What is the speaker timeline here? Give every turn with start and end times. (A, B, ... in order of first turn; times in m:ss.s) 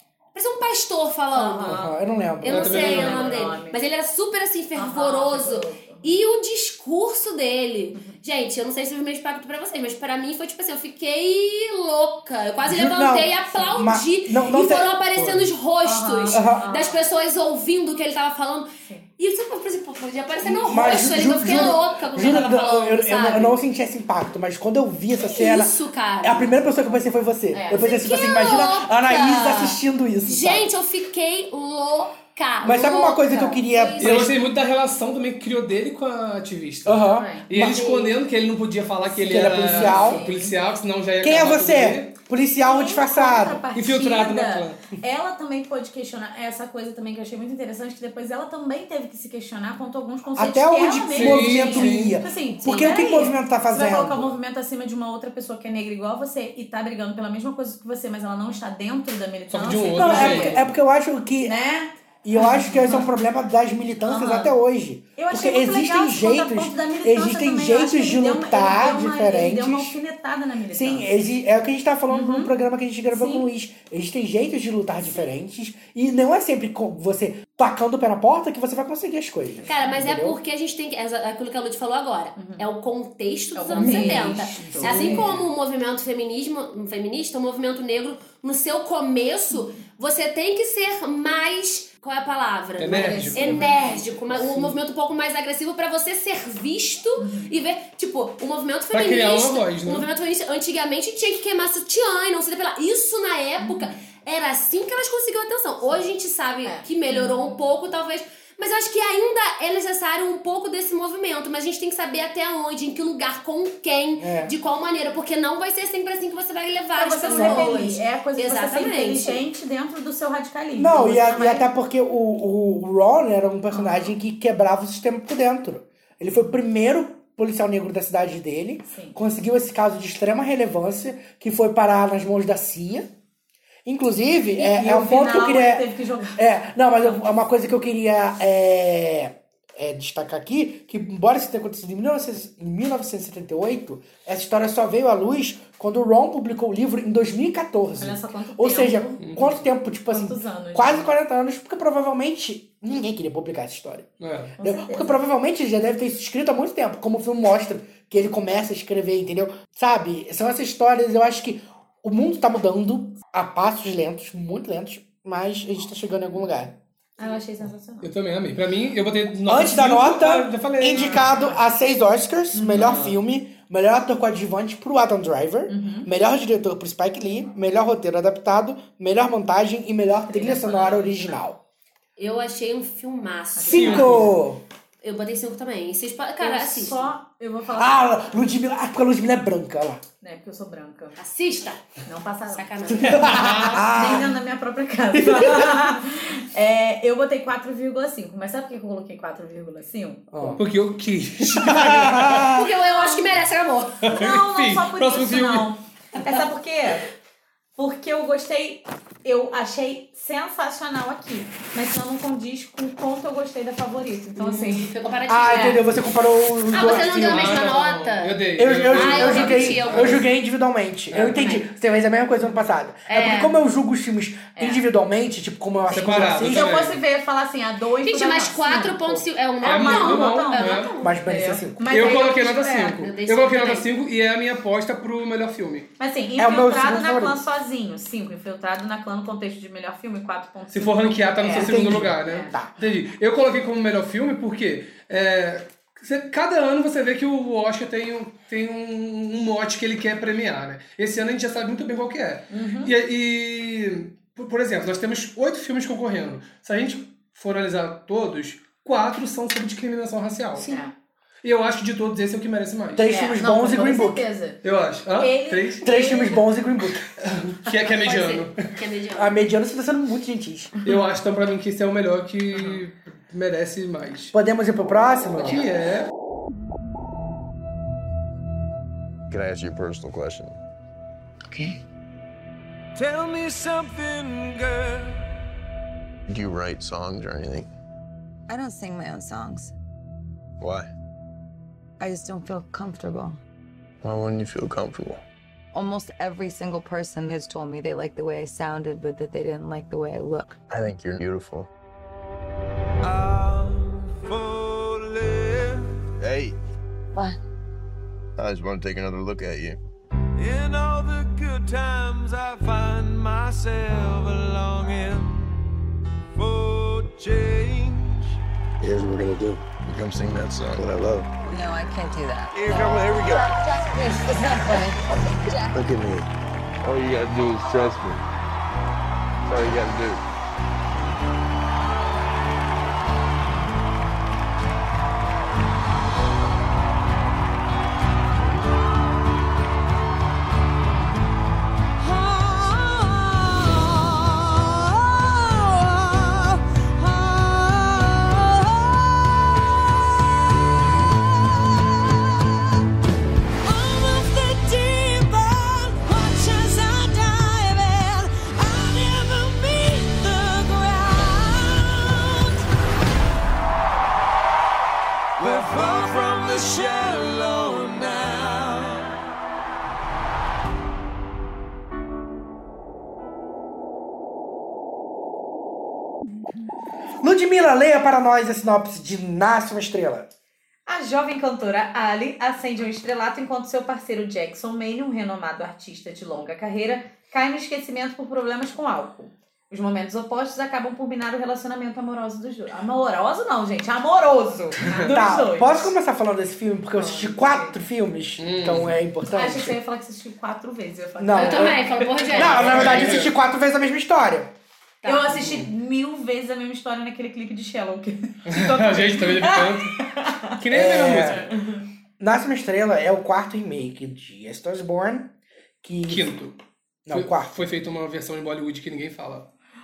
0:00.3-0:01.8 A
0:01.3-0:01.9 B
0:01.6-0:03.0 C
0:02.4-0:23.6 A
0:02.5-0:03.4 D
0:02.7-0:03.8 B
0:04.8-0:06.0 B
0:12.7-0:14.9 C
0:15.2-0:15.5 D
0:15.8-0:17.0 B
0:16.3-0:16.7 C
0:20.4-0:30.7 C
0:25.2-0:26.6 A
0:27.5-0:28.0 B
0:27.8-0:34.3 A
0:32.6-0:34.4 C
0:34.0-0:42.1 D
0:36.9-0:37.9 C
0:37.1-0:37.5 B
0:37.7-0:38.1 A
0:39.2-0:40.2 C
0:39.4-0:40.6 B
0:41.2-0:43.6 C
0:42.6-1:00.6 B
0:43.7-0:44.8 D
0:50.4-0:54.2 C
0:51.1-0:52.2 D
0:59.5-1:00.7 D
1:00.0-1:01.6 C
1:01.4-1:03.1 B
1:02.2-1:10.0 C
1:04.1-1:04.6 B
1:05.2-1:11.1 B
1:10.7-1:20.4 C
1:12.1-1:12.5 B
1:13.1-1:13.5 B
1:19.6-1:19.9 B
1:19.7-1:59.4 A
1:22.4-1:22.7 B
1:23.6-1:25.3 B
1:23.8-1:25.4 C
1:32.8-1:33.6 D
1:32.9-1:34.7 B
1:37.2-1:37.6 B
1:38.9-1:40.1 D
1:43.6-1:44.0 B
1:46.6-1:47.6 B
1:54.2-1:54.5 C
1:57.0-2:01.6 B
1:57.3-1:57.8 C
2:00.8-2:13.1 C
2:03.7-2:04.1 B
2:08.9-2:09.2 B
2:13.8-2:46.8 C
2:14.6-2:16.4 B
2:28.0-2:29.2 B
2:29.2-2:29.6 D
2:30.1-2:31.1 B
2:34.2-2:34.6 D
2:34.6-2:35.1 B
2:47.2-2:48.1 B
2:48.0-2:51.3 D
2:49.4-3:01.6 C
2:51.1-2:51.6 B
2:52.5-2:53.0 B
2:52.8-2:53.1 D
2:55.7-2:56.1 B
3:00.3-3:01.4 B
3:02.2-3:04.2 A
3:03.6-3:04.3 B
3:03.6-3:04.6 C
3:03.8-3:04.3 D
3:05.0-3:07.1 A
3:06.4-3:08.1 B
3:07.7-3:10.0 C
3:10.2-3:11.2 B
3:11.2-3:11.8 A
3:12.0-3:20.6 B
3:12.5-3:13.7 A
3:13.0-3:14.3 C
3:15.1-3:15.8 C
3:20.3-3:20.6 C
3:20.6-3:22.5 D
3:21.6-3:22.7 C
3:22.5-3:24.0 A
3:24.0-3:25.7 D
3:24.1-3:27.1 B
3:27.8-3:34.9 B
3:34.4-3:35.8 A
3:35.3-3:37.7 C
3:36.7-3:40.2 A
3:37.3-3:40.2 D
3:38.6-3:46.9 C
3:41.1-3:41.5 D
3:43.1-3:43.6 A
3:44.6-3:44.8 B
3:45.9-3:47.0 D
3:46.0-3:53.0 B
3:48.0-3:51.2 A
3:49.6-3:50.9 D
3:51.0-3:52.0 C
3:51.9-3:55.9 D
3:53.0-3:53.9 A
3:56.0-4:02.5 B
3:56.4-3:57.4 C
4:00.7-4:20.7 D
4:01.5-4:02.7 C
4:12.5-4:12.9 B
4:20.6-4:20.9 B
4:21.4-4:23.1 D
4:23.0-4:24.2 C
4:23.1-4:24.6 B
4:24.6-4:25.8 D
4:25.2-4:26.4 B
4:25.8-4:27.0 C
4:27.2-4:28.6 D
4:27.9-4:29.4 A
4:29.1-4:30.7 C
4:30.8-4:34.3 D
4:34.3-4:35.6 C
4:35.4-4:36.1 D
4:39.3-4:40.6 E
4:41.5-4:41.8 F
4:43.0-4:45.3 G
4:46.3-4:47.7 E
4:48.5-4:49.7 F
4:50.6-4:50.9 E
4:52.0-4:53.4 F
4:54.0-4:55.2 E
4:55.7-5:00.6 F
5:00.7-5:01.7 E
5:03.0-5:06.0 G
5:06.2-5:06.6 E
5:08.4-5:09.8 E
5:10.4-5:15.5 G
5:16.4-5:18.4 G
5:18.8-5:21.3 E
5:21.4-5:25.8 F
5:22.6-5:22.8 G
5:22.6-5:23.5 E
5:25.7-5:26.3 E
5:26.8-5:28.2 E
5:29.4-5:30.2 E
5:53.7-5:56.8 G
5:58.7-6:00.2 G
6:05.4-6:09.1 G
6:17.2-6:20.3 C
6:20.9-6:35.9 B
6:35.0-6:39.8 C
6:37.0-6:37.7 B
6:38.4-6:39.0 D
6:39.3-6:43.0 B
6:41.2-6:41.8 C
6:41.4-6:43.2 A
6:42.3-6:44.5 C
6:42.7-6:43.3 D
6:45.0-6:45.4 A
6:45.0-6:50.6 B
6:45.4-6:45.7 D
6:48.5-6:49.9 D
6:50.6-6:51.4 D
6:50.7-6:51.4 C
6:51.3-6:51.8 B
6:52.2-6:56.3 C
6:56.1-6:56.6 D
6:57.1-6:57.5 C
6:57.1-6:59.5 D